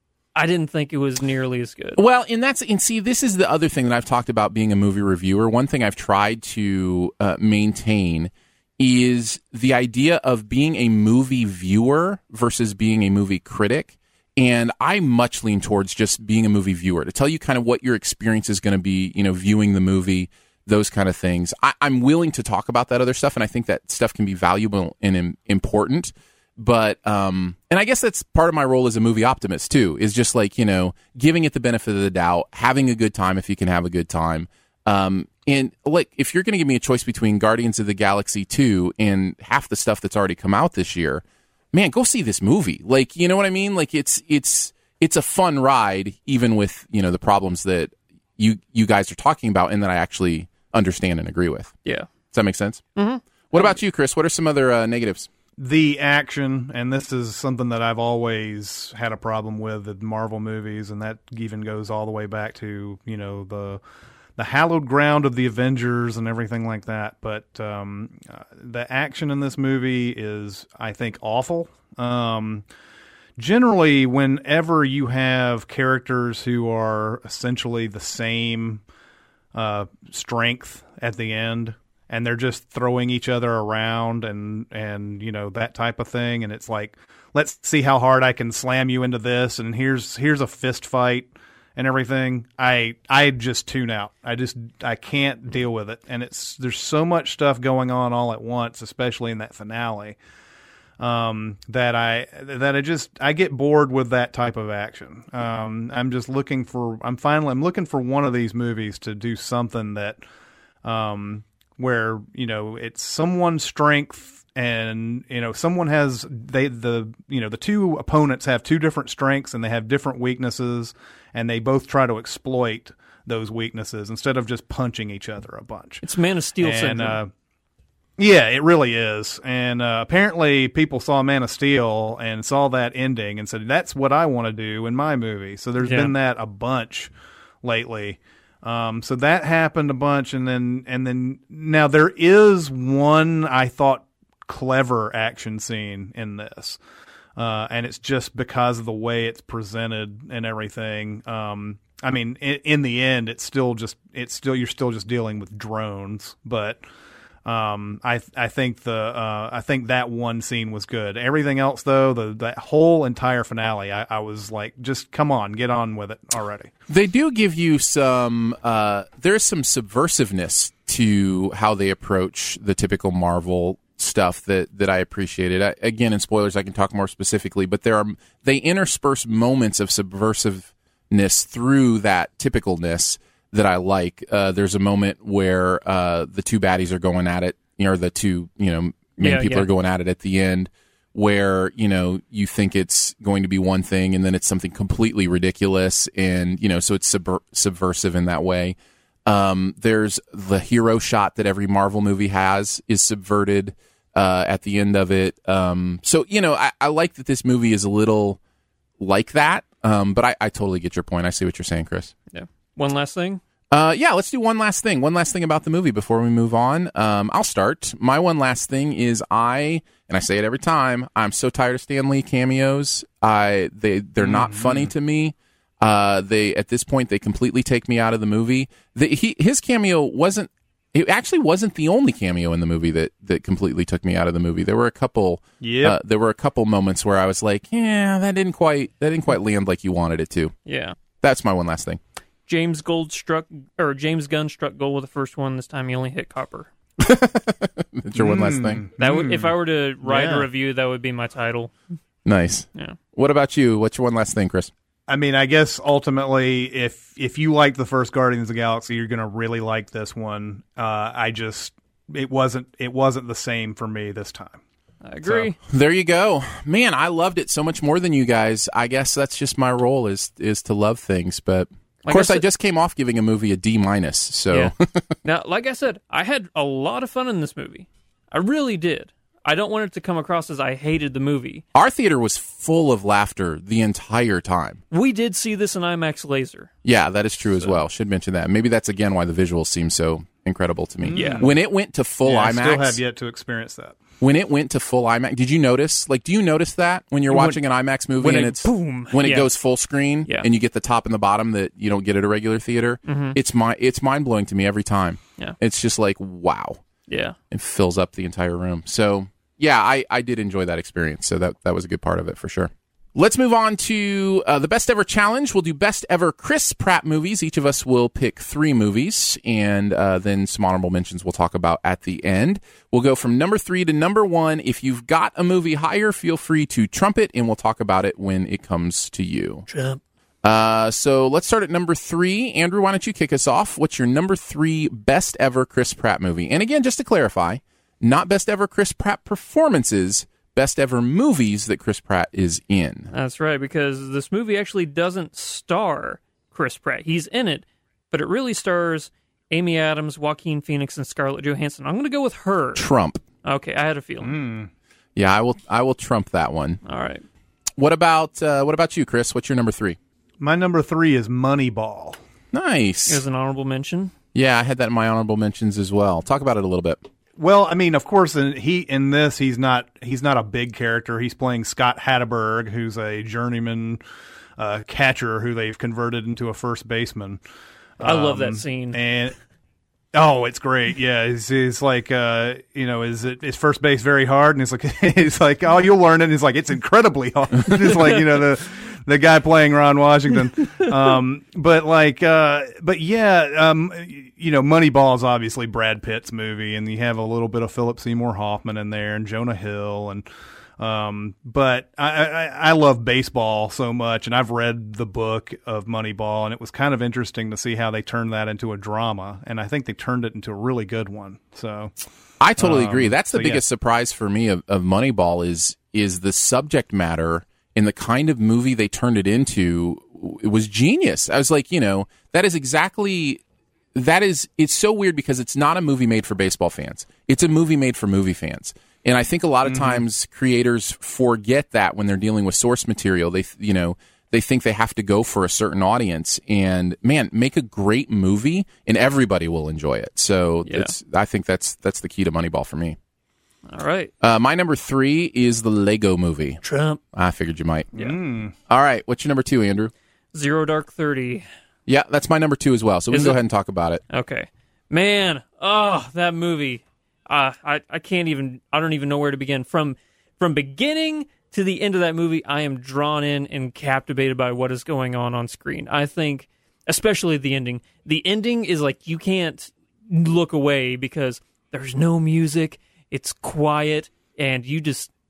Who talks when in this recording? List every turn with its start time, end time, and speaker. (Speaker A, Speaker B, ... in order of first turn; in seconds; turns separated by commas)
Speaker A: 0.3-2.0, Speaker B: 2.0-51.7, Speaker B: 52.3-52.8, Speaker A: 53.0-53.8, Speaker B: 53.5-55.3, Speaker C: 55.6-63.8, Speaker C: 64.4-72.6, Speaker C: 73.4-78.8, Speaker C: 79.5-100.2, Speaker C: 101.0-110.2, Speaker C: 110.8-126.0, Speaker A: 126.0-127.2, Speaker C: 126.6-127.3, Speaker C: 128.2-137.1, Speaker A: 135.8-136.1, Speaker C: 137.6-146.8, Speaker C: 147.3-156.8, Speaker C: 157.4-166.7, Speaker B: 166.9-208.4, Speaker A: 189.2-189.7, Speaker B: 209.0-212.1, Speaker A: 212.3-213.4, Speaker B: 213.7-240.5, Speaker C: 224.2-224.9, Speaker C: 235.6-236.0, Speaker A: 240.7-240.9, Speaker B: 241.2-242.0, Speaker A: 242.5-246.7, Speaker B: 247.0-248.8, Speaker C: 248.2-250.5, Speaker A: 249.0-251.7, Speaker B: 252.2-254.7, Speaker C: 255.1-264.6, Speaker A: 265.0-265.6, Speaker C: 265.2-265.5, Speaker B: 265.7-275.1, Speaker A: 272.0-272.4, Speaker A: 275.2-281.6, Speaker B: 281.7-284.8, Speaker A: 284.9-286.7, Speaker B: 286.8-293.0, Speaker C: 291.0-291.5, Speaker A: 291.1-291.5, Speaker C: 292.2-294.0, Speaker B: 294.2-306.8, Speaker A: 297.3-297.6, Speaker A: 298.2-299.5, Speaker A: 303.1-303.4, Speaker A: 307.1-307.4, Speaker B: 307.5-329.7, Speaker A: 329.7-330.0, Speaker B: 330.4-343.1, Speaker A: 343.1-352.9, Speaker B: 352.8-353.2, Speaker A: 353.4-354.3, Speaker C: 354.2-354.7, Speaker B: 355.1-356.8, Speaker A: 356.9-357.2, Speaker B: 357.8-360.0, Speaker C: 360.4-362.2, Speaker B: 362.5-363.2, Speaker A: 363.1-364.1, Speaker B: 364.3-367.0, Speaker C: 367.4-374.0, Speaker C: 374.6-377.4, Speaker C: 378.0-379.3, Speaker A: 378.0-379.0, Speaker C: 380.1-400.2, Speaker A: 387.8-388.2, Speaker C: 400.8-411.9, Speaker B: 412.4-423.4, Speaker C: 412.6-413.6, Speaker B: 423.9-443.0, Speaker C: 429.6-430.0, Speaker A: 440.6-440.9, Speaker A: 443.7-444.1, Speaker B: 444.2-446.6, Speaker A: 446.6-447.0, Speaker B: 447.1-447.9, Speaker C: 447.9-448.5, Speaker B: 448.7-449.9, Speaker A: 450.3-451.4, Speaker B: 451.9-454.0, Speaker A: 453.1-453.4, Speaker A: 454.1-475.1